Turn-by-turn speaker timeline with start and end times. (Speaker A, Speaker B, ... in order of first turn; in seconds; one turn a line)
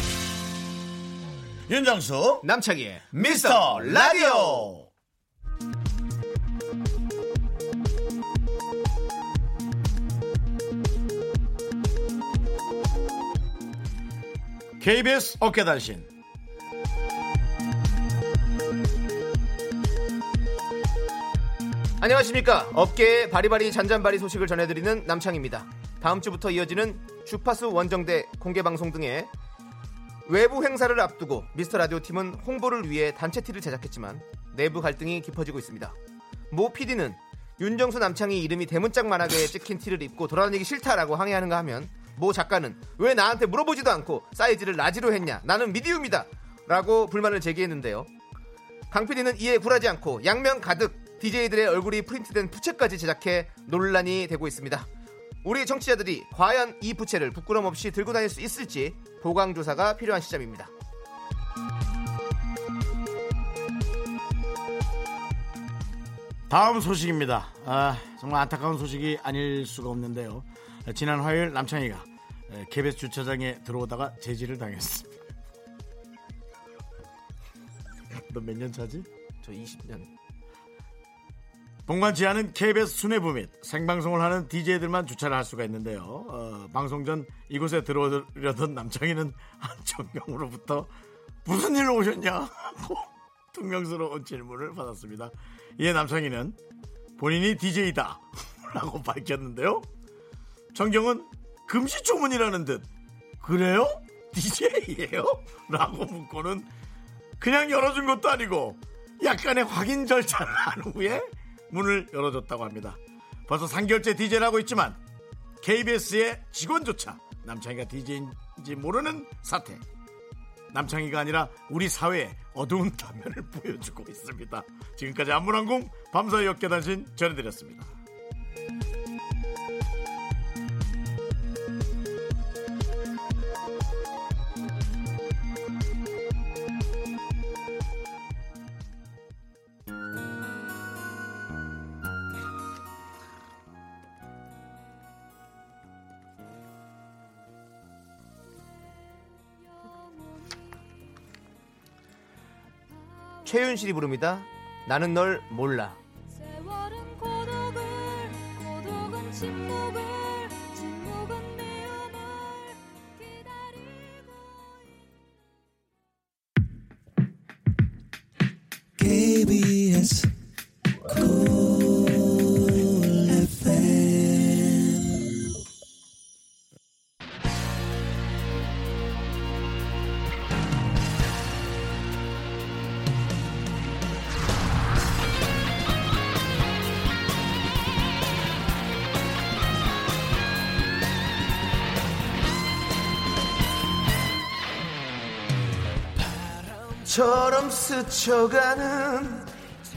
Speaker A: 1.7-2.5
Speaker B: 2.4-4.7
Speaker A: 3.1-4.9
Speaker A: 14.8-16.1
Speaker B: 22.0-29.3
Speaker B: 30.2-36.0
Speaker B: 36.5-48.1
Speaker B: 48.9-54.9
Speaker B: 55.4-60.7
Speaker A: 66.5-75.2
Speaker A: 78.1-79.1
Speaker B: 79.4-80.1
Speaker A: 81.9-90.9
Speaker A: 91.4-96.6
Speaker A: 97.2-99.9
Speaker A: 100.7-102.8
Speaker A: 103.4-106.7
Speaker A: 107.4-115.0
Speaker A: 115.6-119.8
Speaker A: 120.7-128.0
Speaker B: 153.4-156.0
Speaker C: 156.3-162.8
Speaker C: 163.3-164.1
Speaker B: 197.0-199.5